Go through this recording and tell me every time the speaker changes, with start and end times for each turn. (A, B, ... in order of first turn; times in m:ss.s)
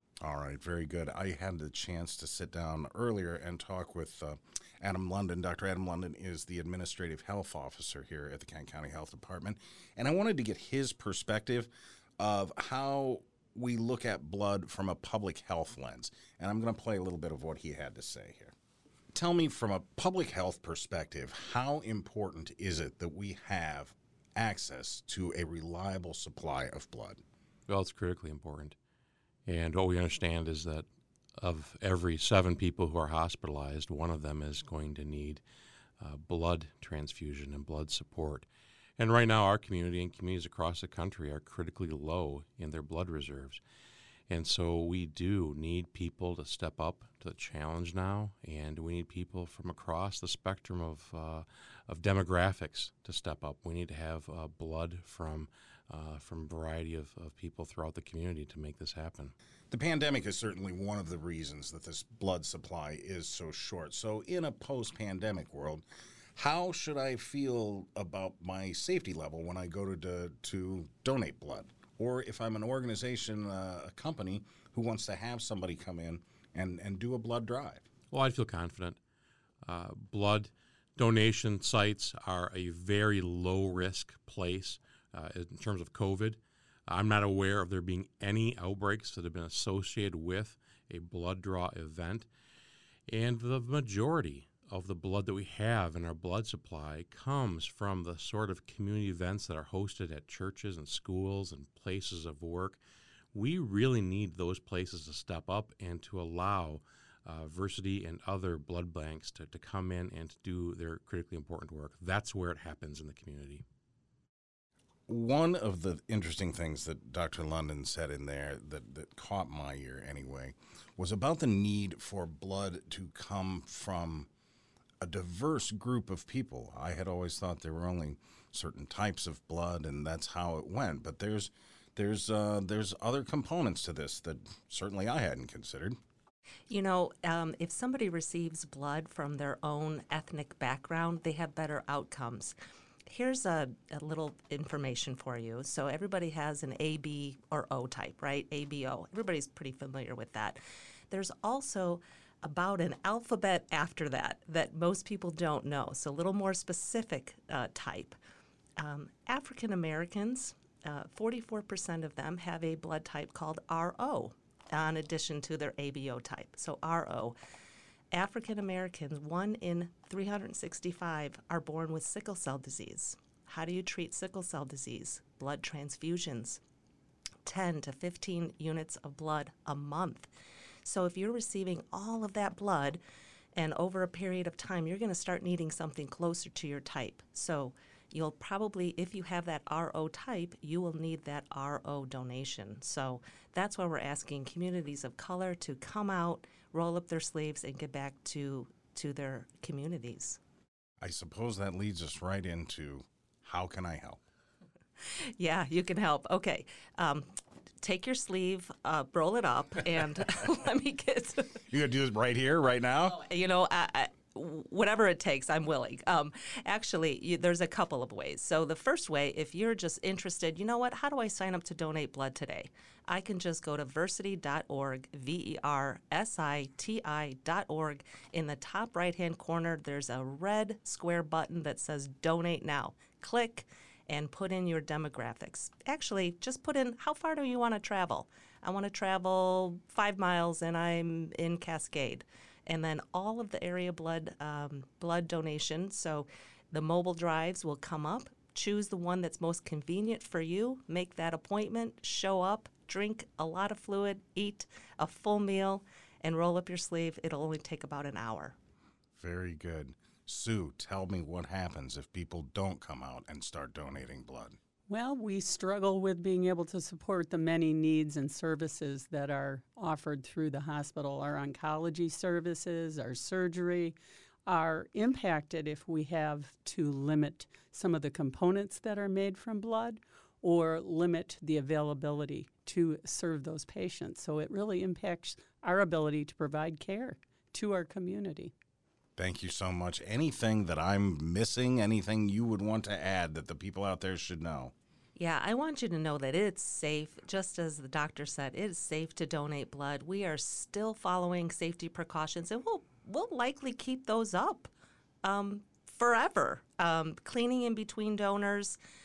0:00.2-0:18.5 A
0:19.1-0:27.2 A
0:27.7-0:28.8 B
0:29.5-0:35.4 B
0:36.0-0:38.5 B
0:39.0-0:43.6 B
0:44.3-0:59.3 B
0:59.7-1:05.8 A
1:06.4-1:17.8 A
1:18.1-1:19.0 B
1:19.6-1:32.3 B
1:33.1-1:42.8 B
1:43.3-1:53.6 B
1:55.1-2:04.3 A
2:05.0-2:16.0 A
2:16.7-2:22.5 C
2:23.1-2:30.6 C
2:31.1-2:38.2 C
2:38.8-2:47.4 C
2:48.1-2:56.6 C
2:57.4-3:00.3 C
3:00.8-3:03.0 C
3:03.6-3:20.4 C
3:21.0-3:24.2 A
3:25.4-3:31.6 C
3:31.7-3:33.2 A
3:33.1-4:18.6 C
4:19.2-4:24.6 A
4:24.9-4:48.5 D
4:49.2-4:54.7 A
4:55.2-5:04.7 C
5:05.2-5:08.8 C